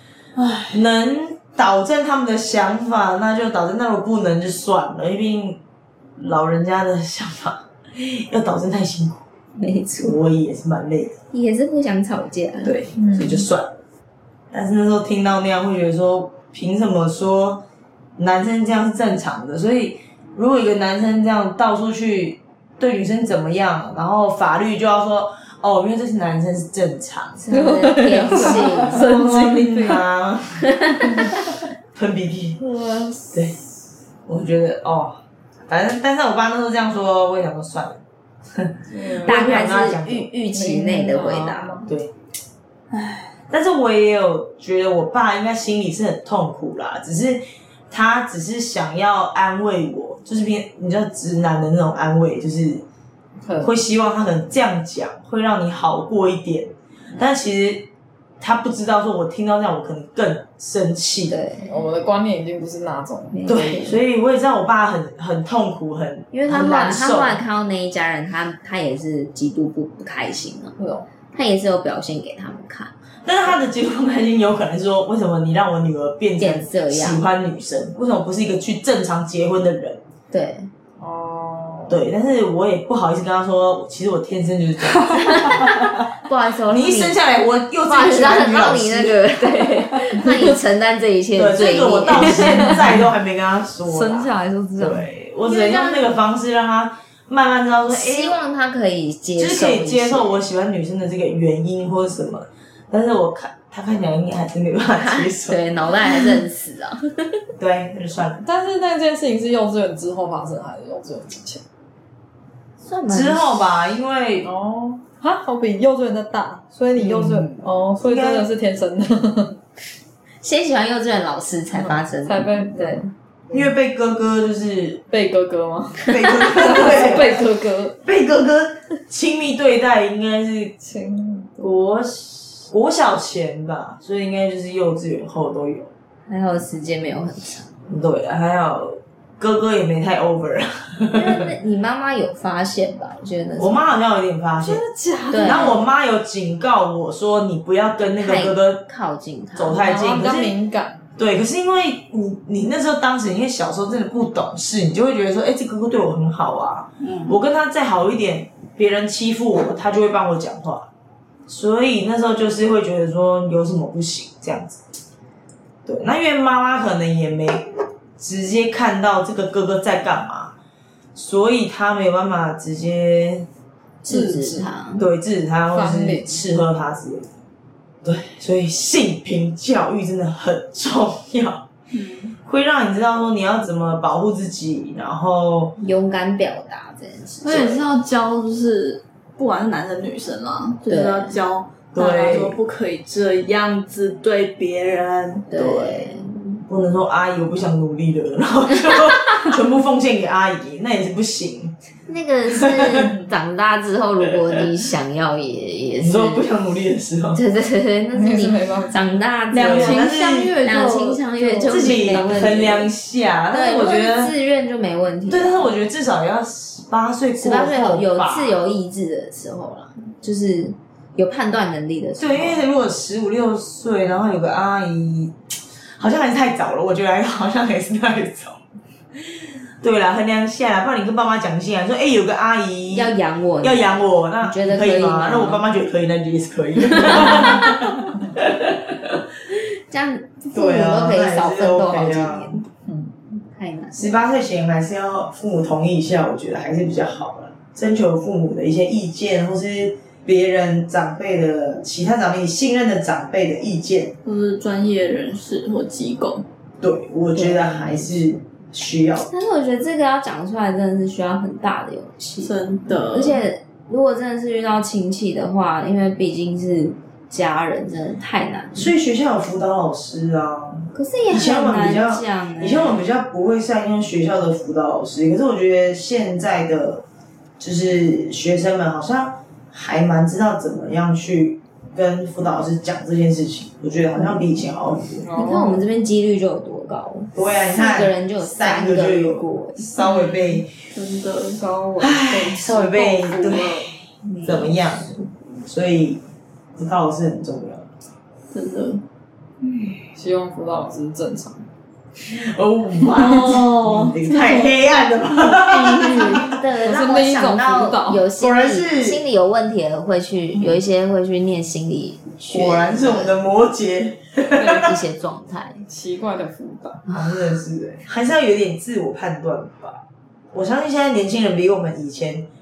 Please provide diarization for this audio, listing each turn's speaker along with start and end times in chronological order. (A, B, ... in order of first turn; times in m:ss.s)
0:00.4-0:00.8 A
0:00.7-0:05.6 B
0:06.2-0:09.2 B
0:09.6-0:10.2 C
0:10.0-0:11.1 B
0:11.3-0:12.8 C
0:12.6-0:13.7 B
0:12.9-0:13.5 D
0:14.5-0:17.6 B
0:18.2-0:27.4 B
0:27.4-0:29.2 C
0:27.5-0:30.0 D
0:28.3-0:30.7 B
0:30.6-0:31.3 C
0:31.9-0:32.6 B
0:32.6-0:33.6 D
0:33.3-0:33.6 B
0:34.2-0:38.0 B
0:38.5-0:40.3 B
0:38.9-0:39.8 D
0:39.2-0:41.8 C
0:40.5-0:41.9 D
0:41.8-0:42.1 B
0:42.9-0:43.4 A
0:43.5-0:52.8 B
0:53.4-0:53.7 D
0:53.6-0:57.9 B
0:58.4-1:01.4 B
1:01.3-1:01.7 C
1:01.6-1:03.6 D
1:03.3-1:04.0 C
1:03.5-1:07.4 B
1:06.3-1:10.8 C
1:10.8-1:11.0 D
1:11.3-1:12.9 C
1:13.2-1:20.0 B
1:16.4-1:17.2 C
1:20.3-1:20.7 C
1:21.0-1:22.0 D
1:21.9-1:25.9 B
1:25.1-1:27.2 C
1:26.7-1:29.4 B
1:27.8-1:33.0 C
1:30.1-1:30.4 D
1:31.4-1:38.4 B
1:32.2-1:33.0 D
1:33.8-1:35.1 D
1:35.4-1:36.1 C
1:37.9-1:40.4 C
1:39.4-1:46.4 B
1:45.0-1:47.4 C
1:47.6-1:48.4 B
1:48.4-1:51.6 D
1:52.8-1:53.8 C
1:53.1-1:54.5 B
1:54.4-1:59.6 D
1:57.0-1:58.5 B
2:00.4-2:03.0 C
2:01.7-2:03.7 D
2:03.5-2:05.0 B
2:05.1-2:08.0 D
2:06.0-2:07.4 B
2:08.0-2:10.7 B
2:10.8-2:11.7 D
2:11.6-2:15.9 B
2:16.3-2:17.7 C
2:17.9-2:21.5 B
2:21.1-2:23.9 C
2:23.6-2:24.8 B
2:24.6-2:25.8 D
2:25.3-2:25.8 C
2:25.4-2:28.8 B
2:28.2-2:29.8 C
2:29.5-2:30.5 B
2:29.8-2:31.0 D
2:31.2-2:40.9 B
2:37.0-2:37.4 A
2:41.5-2:44.8 B
2:45.8-2:47.7 B
2:48.2-2:50.5 B
2:51.1-2:53.5 B
2:54.0-2:55.0 C
2:54.0-2:54.7 D
2:55.0-2:57.3 B
2:55.7-2:56.4 D
2:58.0-3:01.6 B
3:01.9-3:02.4 A
3:02.4-3:05.7 B
3:05.8-3:07.8 C
3:07.4-3:16.1 A
3:10.9-3:11.3 C
3:11.9-3:12.6 B
3:15.5-3:16.6 C
3:16.7-3:21.8 B
3:18.9-3:19.2 C
3:22.1-3:26.5 C
3:22.5-3:23.1 B
3:24.3-3:24.7 B
3:26.0-3:27.4 B
3:27.3-3:32.9 C
3:28.1-3:29.1 D
3:29.5-3:32.3 A
3:29.6-3:30.6 B
3:31.6-3:34.3 B
3:33.5-3:35.6 C
3:35.3-3:38.6 B
3:37.4-3:42.6 C
3:42.2-3:45.3 B
3:46.0-3:48.6 B
3:49.2-3:59.2 B
3:52.9-3:55.6 C
3:56.8-3:57.7 C
3:59.5-4:02.6 C
4:00.5-4:02.6 B
4:02.9-4:03.2 D
4:03.5-4:04.2 C
4:03.9-4:14.1 B
4:14.2-4:16.4 A
4:16.8-4:19.3 B
4:17.3-4:18.2 C
4:19.3-4:22.5 C
4:22.4-4:23.4 A
4:23.1-4:28.9 C
4:28.8-4:37.0 B
4:30.9-4:33.1 C
4:37.6-4:45.3 B
4:45.2-4:45.8 D
4:45.3-4:50.3 C
4:47.3-4:50.9 B
4:50.9-4:51.6 A
4:51.6-4:53.9 D
4:52.0-4:56.2 B
4:54.2-4:55.2 C
4:56.8-4:57.9 B
4:58.5-4:59.0 A
5:00.0-5:01.7 D
5:02.2-5:06.5 B
5:03.1-5:04.7 A
5:05.5-5:08.3 D
5:05.7-5:13.4 C
5:08.4-5:09.2 B
5:12.5-5:15.0 B
5:14.6-5:14.9 D
5:14.6-5:15.8 C
5:15.9-5:17.0 D
5:17.1-5:17.4 C
5:17.1-5:20.0 B
5:20.5-5:22.5 B